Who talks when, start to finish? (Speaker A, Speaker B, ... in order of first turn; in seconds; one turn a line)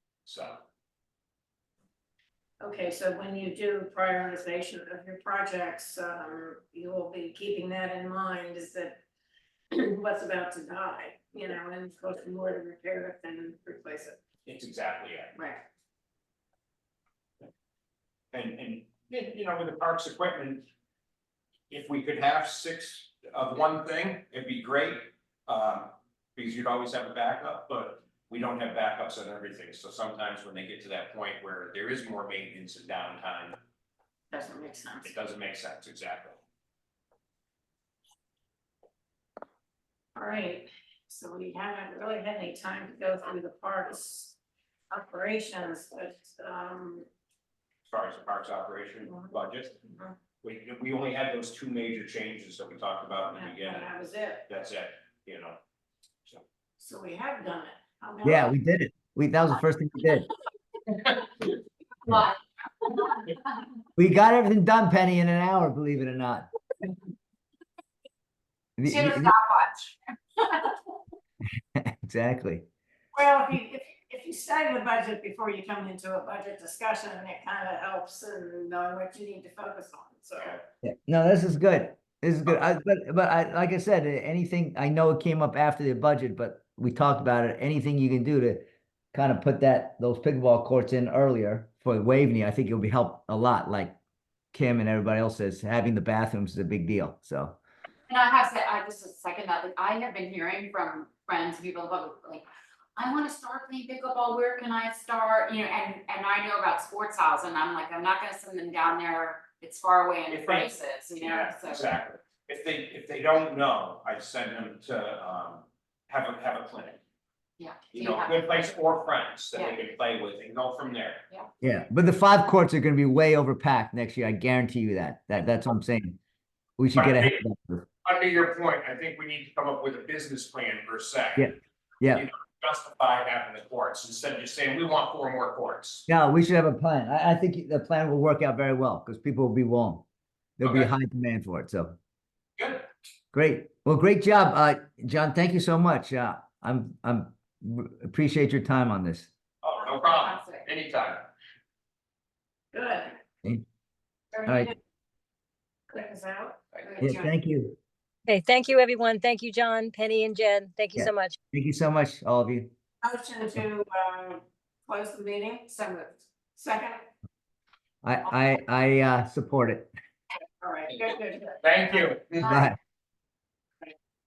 Speaker A: 0.2-0.6
Speaker B: 2.6-9.0
Speaker B: 9.8-14.2
Speaker A: 14.5-15.3
Speaker B: 15.3-15.6
Speaker A: 18.3-20.6
Speaker A: 21.7-33.6
Speaker B: 34.3-35.1
Speaker A: 35.0-36.4
Speaker B: 40.2-44.4
Speaker B: 44.9-47.1
Speaker A: 47.9-49.7
Speaker B: 49.1-50.1
Speaker A: 50.4-53.9
Speaker B: 53.3-54.5
Speaker A: 54.5-55.6
Speaker B: 56.8-58.5
Speaker C: 58.2-60.3
Speaker D: 62.1-63.5
Speaker C: 64.0-66.5
Speaker C: 68.8-69.3
Speaker D: 68.9-70.7
Speaker C: 71.8-72.7
Speaker B: 73.1-80.6
Speaker C: 80.8-94.0
Speaker C: 94.5-97.6
Speaker D: 98.1-111.9
Speaker A: 110.3-117.0
Speaker D: 117.6-118.7
Speaker A: 117.9-121.2
Speaker D: 119.5-119.8
Speaker C: 121.6-126.2
Speaker C: 126.8-127.9
Speaker A: 127.0-127.4
Speaker A: 128.0-131.5
Speaker C: 131.4-132.3
Speaker A: 132.1-136.1
Speaker C: 136.1-140.1
Speaker C: 140.6-142.0
Speaker A: 140.6-140.9
Speaker A: 142.6-142.9
Speaker C: 143.3-149.3
Speaker A: 149.6-151.3
Speaker D: 149.8-150.7
Speaker B: 152.7-153.2
Speaker B: 154.3-154.7
Speaker C: 154.4-154.7
Speaker B: 155.9-156.6
Speaker D: 156.8-157.3
Speaker C: 157.0-157.8
Speaker E: 158.3-161.4
Speaker C: 161.0-162.7
Speaker B: 163.0-165.7
Speaker D: 165.7-166.2
Speaker B: 166.6-167.1
Speaker C: 168.0-169.9
Speaker B: 170.6-172.1
Speaker A: 171.6-172.4
Speaker D: 172.4-172.8
Speaker C: 172.4-172.8